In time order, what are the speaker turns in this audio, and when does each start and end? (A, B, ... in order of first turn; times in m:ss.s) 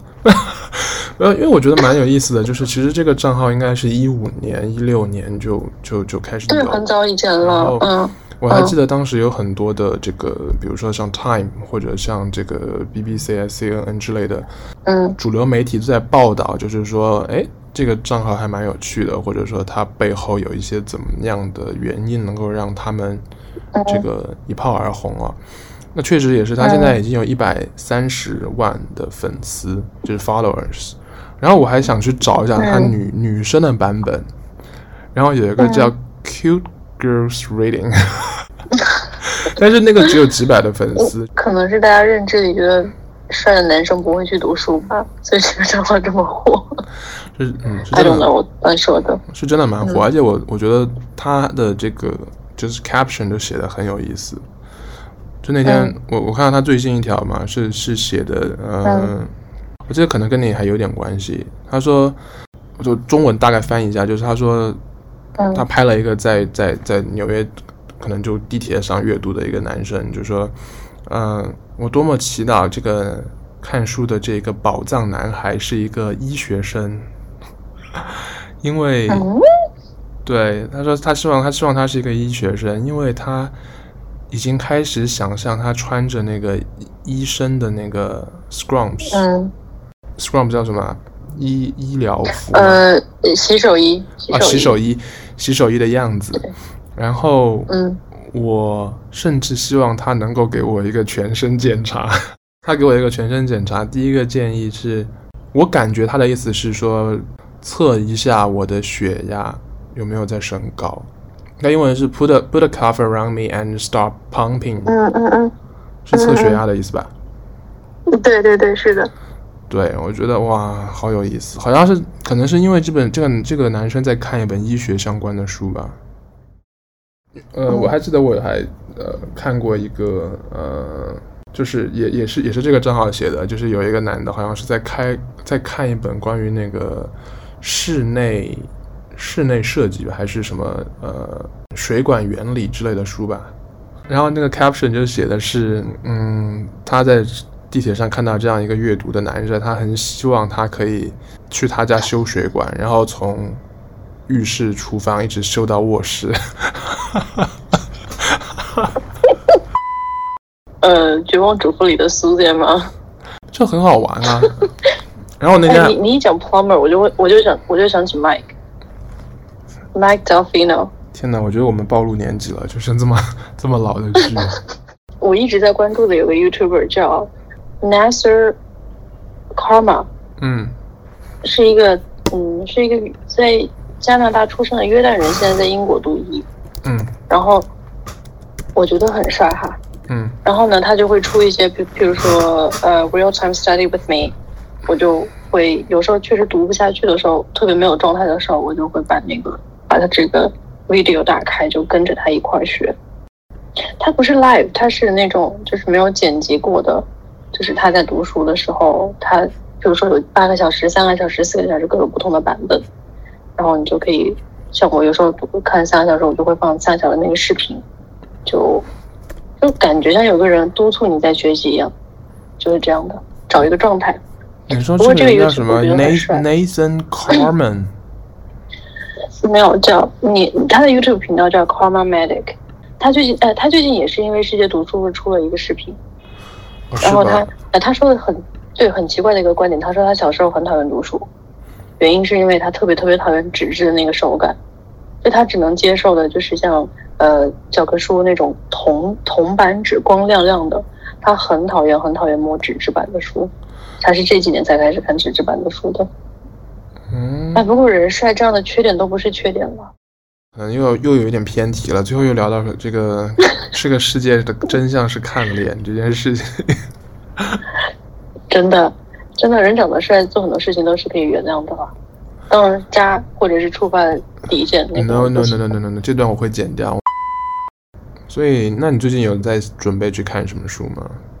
0:00.2-0:06.8 A
0:06.5-0:08.7 B
0:07.4-0:07.9 A
0:08.4-0:14.5 A
0:14.8-0:15.2 B
0:15.2-0:23.2 A
0:23.7-0:24.0 B
0:23.8-0:25.4 A
0:25.9-0:34.3 A
0:26.6-0:27.0 B
0:32.6-0:32.9 B
0:35.1-0:38.4 A
0:35.6-0:35.9 B
0:39.2-0:41.3 A
0:41.0-0:46.7 B
0:47.3-0:48.3 A
0:47.9-0:49.2 B
0:49.3-0:54.4 A
0:55.4-0:59.3 A
0:55.6-0:55.9 B
0:58.8-0:59.1 B
0:59.9-1:02.2 A
1:02.8-1:04.8 A
1:05.4-1:05.6 B
1:05.5-1:10.5 A
1:11.0-1:17.1 A
1:18.6-1:19.3 A
1:19.1-1:19.4 B
1:20.2-1:23.5 A
1:24.3-1:29.2 A
1:29.1-1:29.5 B
1:30.2-1:32.8 A
1:32.5-1:34.7 B
1:34.3-1:51.1 A
1:37.7-1:38.0 B
1:51.6-1:54.9 A
1:54.8-1:55.5 B
1:56.0-1:57.1 A
1:56.1-1:56.6 B
1:58.1-1:59.1 B
1:59.7-2:06.0 A
2:07.5-2:23.5 A
2:24.1-2:33.6 A
2:34.3-2:37.2 A
2:40.8-2:42.9 B
2:43.5-2:44.6 A
2:45.4-2:46.0 A
2:45.7-2:48.5 B
2:49.9-2:50.9 B
2:51.1-2:54.6 A
2:55.2-2:58.6 B
2:59.5-3:00.1 B
3:00.4-3:00.7 A
3:01.4-3:06.4 B
3:06.8-3:07.1 A
3:07.3-3:07.7 B
3:08.8-3:09.8 B
3:10.1-3:10.4 A
3:10.4-3:14.3 B
3:14.9-3:22.9 B
3:24.0-3:32.8 B
3:33.6-3:37.8 B
3:38.4-3:38.8 B
3:39.6-3:41.9 B
3:42.6-3:44.2 B
3:44.7-3:47.9 A
3:45.0-3:46.4 B
3:49.4-3:56.0 B
3:56.9-3:57.5 A
3:57.0-4:01.3 B
4:02.0-4:04.6 B
4:05.2-4:16.1 B
4:17.1-4:17.7 A
4:17.5-4:19.9 B
4:20.6-4:26.9 A
4:28.5-4:31.9 B
4:32.5-4:35.6 B
4:34.9-4:37.0 A
4:38.3-4:41.2 A